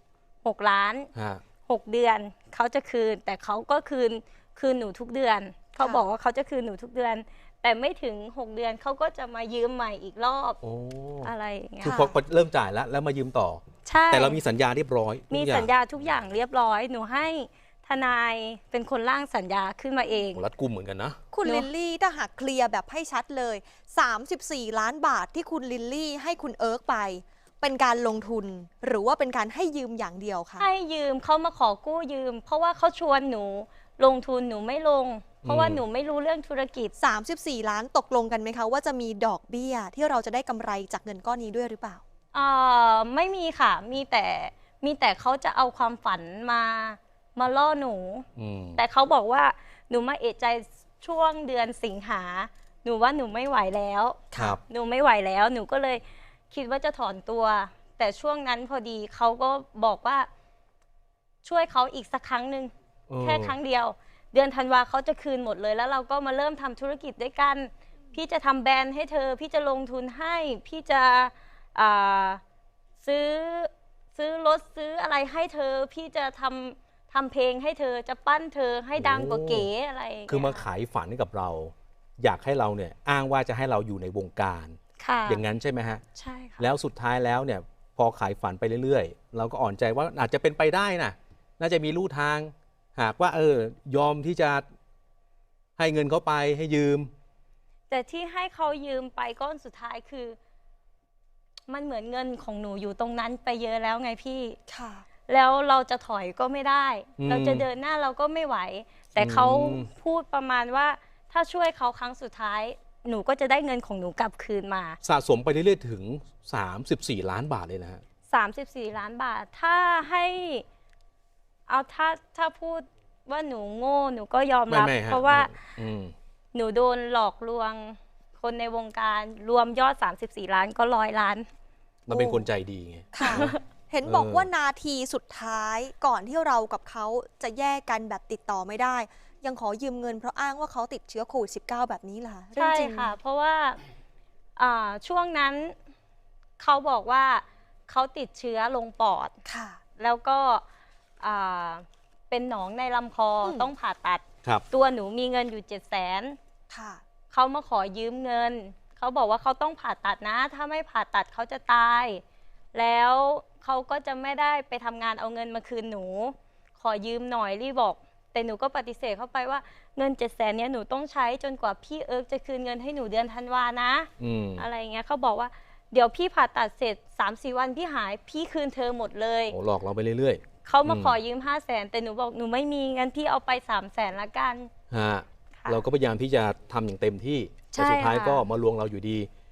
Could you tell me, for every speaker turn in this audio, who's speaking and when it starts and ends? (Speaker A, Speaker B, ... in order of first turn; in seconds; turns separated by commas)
Speaker A: 0.4-1.1, Speaker B: 1.1-1.4, Speaker A: 1.6-10.6, Speaker C: 5.8-6.0, Speaker B: 10.6-15.7, Speaker A: 11.2-12.0, Speaker C: 11.8-12.1, Speaker A: 13.8-14.4, Speaker A: 15.3-20.4, Speaker B: 20.3-21.2, Speaker C: 21.3-30.7, Speaker A: 21.4-21.7, Speaker A: 30.6-36.9, Speaker B: 35.4-35.8, Speaker C: 37.0-42.0, Speaker A: 42.3-48.2, Speaker B: 48.4-48.8, Speaker A: 48.8-60.3, Speaker A: 61.4-72.4, Speaker B: 63.1-63.6, Speaker A: 73.0-80.7, Speaker B: 79.0-79.7, Speaker B: 80.3-86.0, Speaker A: 85.0-85.4, Speaker A: 86.2-86.7, Speaker B: 86.6-94.6, Speaker B: 95.8-97.1, Speaker A: 97.9-100.4, Speaker A: 101.7-104.6, Speaker C: 104.7-105.1, Speaker A: 105.3-115.0, Speaker B: 107.2-107.7, Speaker B: 109.2-109.9, Speaker B: 115.0-118.0, Speaker A: 118.3-120.6, Speaker A: 121.7-125.6, Speaker B: 124.7-126.1, Speaker A: 126.5-131.5, Speaker B: 132.1-134.5, Speaker C: 132.1-132.5, Speaker C: 133.1-143.1, Speaker A: 133.2-133.6, Speaker A: 142.6-143.8, Speaker A: 144.6-145.8, Speaker A: 146.6-149.3, Speaker C: 149.4-149.8, Speaker A: 150.0-150.6, Speaker A: 151.2-156.4, Speaker C: 153.4-153.7, Speaker C: 156.7-157.0, Speaker A: 157.3-162.2, Speaker A: 162.7-179.6, Speaker B: 174.2-174.6, Speaker B: 179.5-181.2, Speaker A: 180.6-184.7, Speaker B: 184.9-189.3, Speaker A: 185.6-185.8, Speaker A: 187.7-188.4